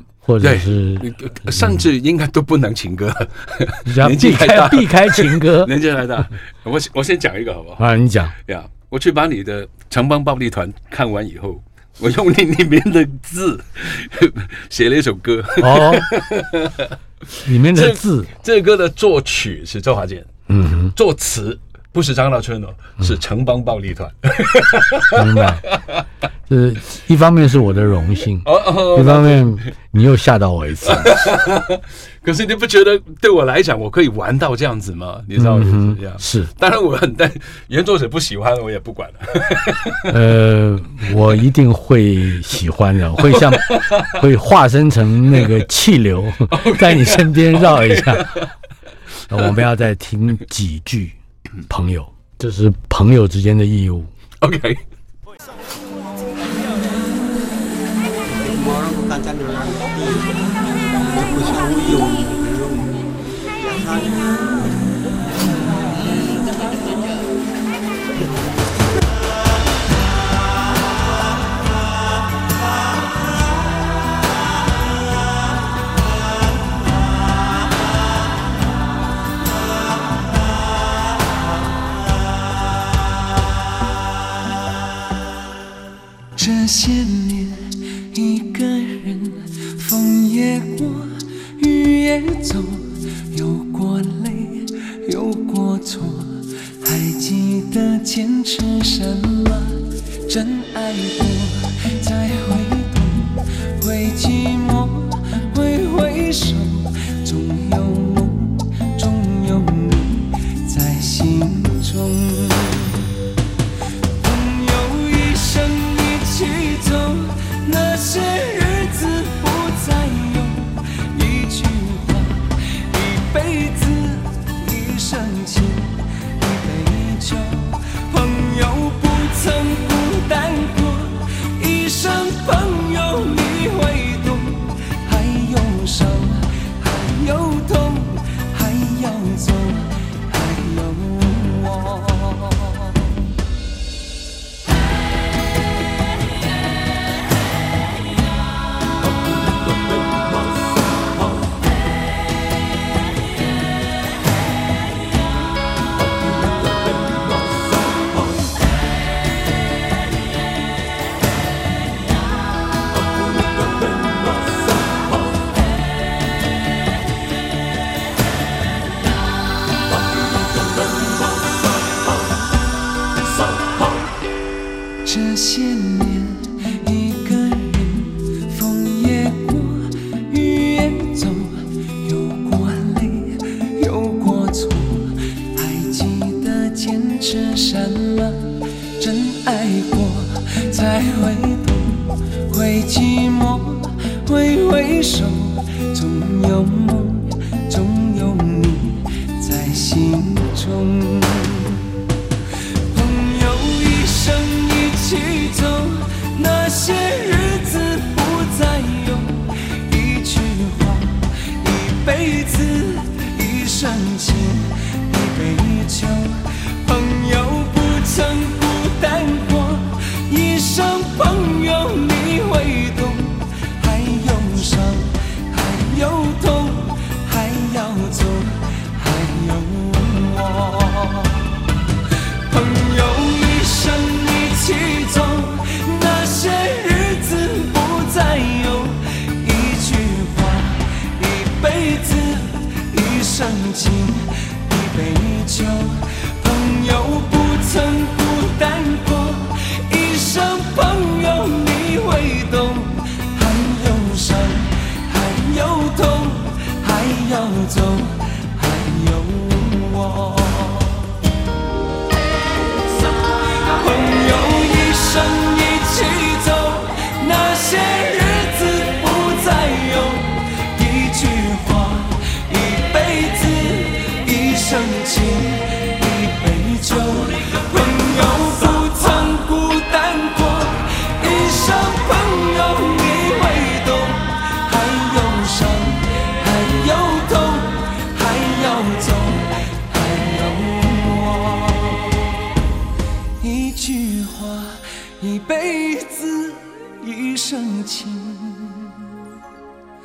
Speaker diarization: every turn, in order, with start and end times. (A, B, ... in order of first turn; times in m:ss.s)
0:00.2-0:01.8 A
0:00.4-0:07.8 B
0:03.8-0:05.7 A
0:07.8-0:08.3 A
0:08.4-0:20.3 B
0:15.6-0:16.1 A
0:17.4-0:18.3 A
0:20.5-0:20.9 A
0:20.9-0:26.0 B
0:25.1-0:25.6 A
0:26.5-0:31.1 A
0:28.4-0:29.7 B
0:30.8-0:40.2 B
0:35.4-0:36.5 A
0:40.1-0:48.5 A
0:43.2-0:44.3 B
0:46.5-0:48.5 B
0:49.3-0:51.2 A
0:51.7-0:54.1 A
0:54.4-0:54.8 B
0:58.2-1:04.4 C
1:26.4-1:53.0 D
1:54.2-2:23.1 D
2:55.0-3:21.9 D
3:22.9-3:51.5 D
3:52.5-4:21.1 D
4:22.7-4:52.3 D
4:53.4-4:59.1 D